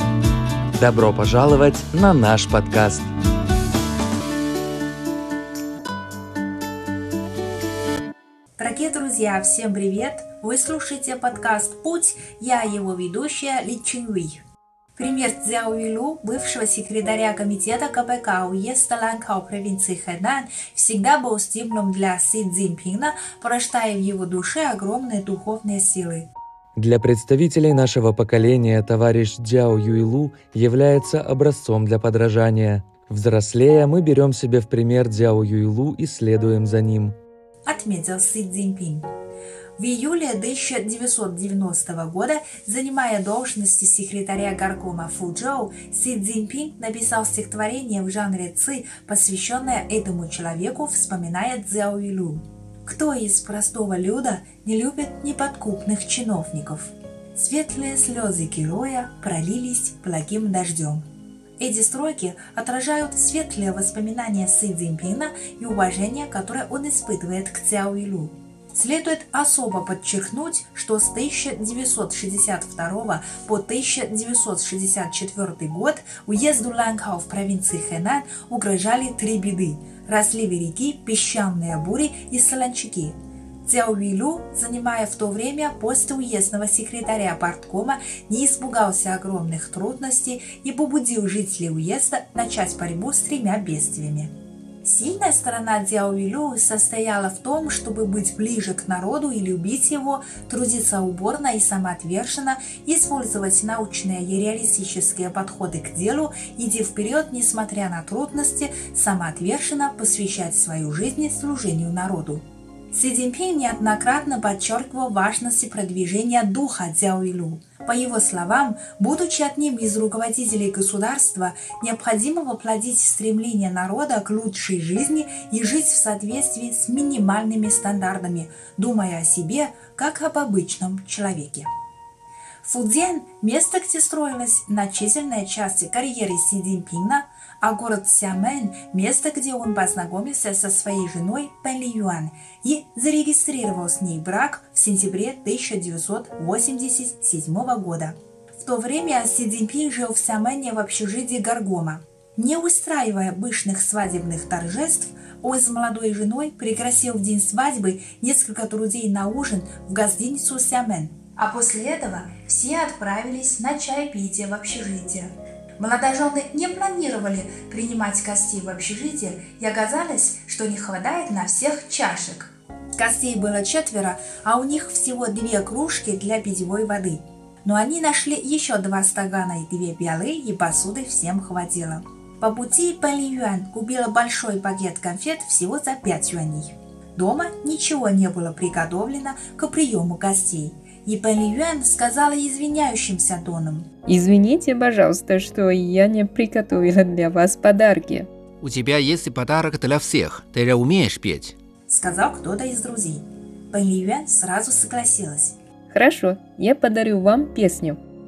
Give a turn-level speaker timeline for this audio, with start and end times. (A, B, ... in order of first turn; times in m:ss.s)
0:00.8-0:03.1 A
0:08.6-0:14.4 B
0:15.0-0:26.3 B
0:26.8-0:37.2 A
0:37.7-0:39.1 B
0:39.8-1:01.1 B
1:01.6-1:34.3 B
1:34.8-2:11.7 B
2:12.6-3:13.9 B
3:14.0-3:18.3 C
3:18.6-3:21.5 D
3:21.9-3:25.6 B
3:25.9-3:28.0 C